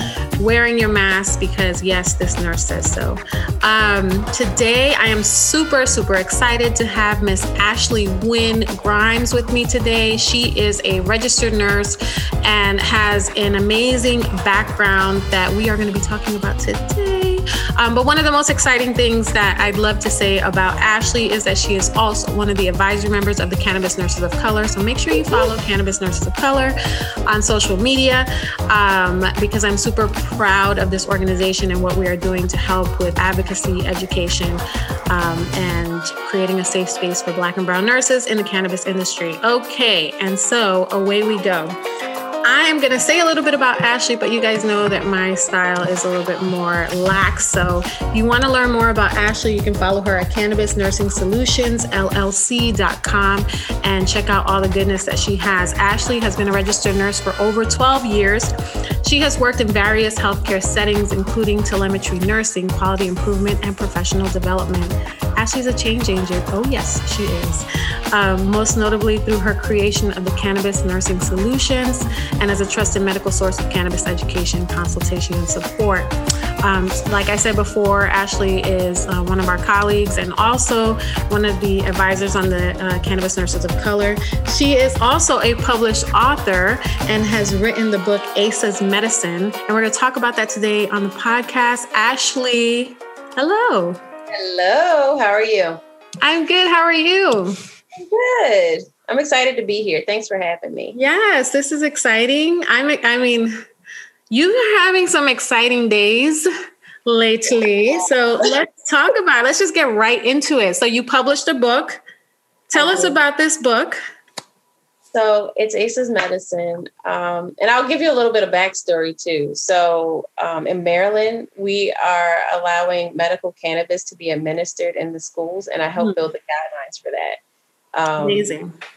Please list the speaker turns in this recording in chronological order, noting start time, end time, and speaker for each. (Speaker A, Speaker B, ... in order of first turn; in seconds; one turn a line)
Speaker A: 0.4-26.8
Speaker A: 27.3-41.8
Speaker A: 42.5-58.5
Speaker A: 59.0-76.1
Speaker A: 76.6-94.0
Speaker B: 94.3-95.8
Speaker A: 96.2-97.5
Speaker B: 98.0-101.0
Speaker A: 101.0-103.6
Speaker A: 104.3-106.5
Speaker A: 107.1-112.0
Speaker A: 112.7-114.0
Speaker B: 112.8-113.2
Speaker B: 115.1-127.4
Speaker A: 126.0-126.2
Speaker B: 128.0-128.5
Speaker A: 128.2-128.7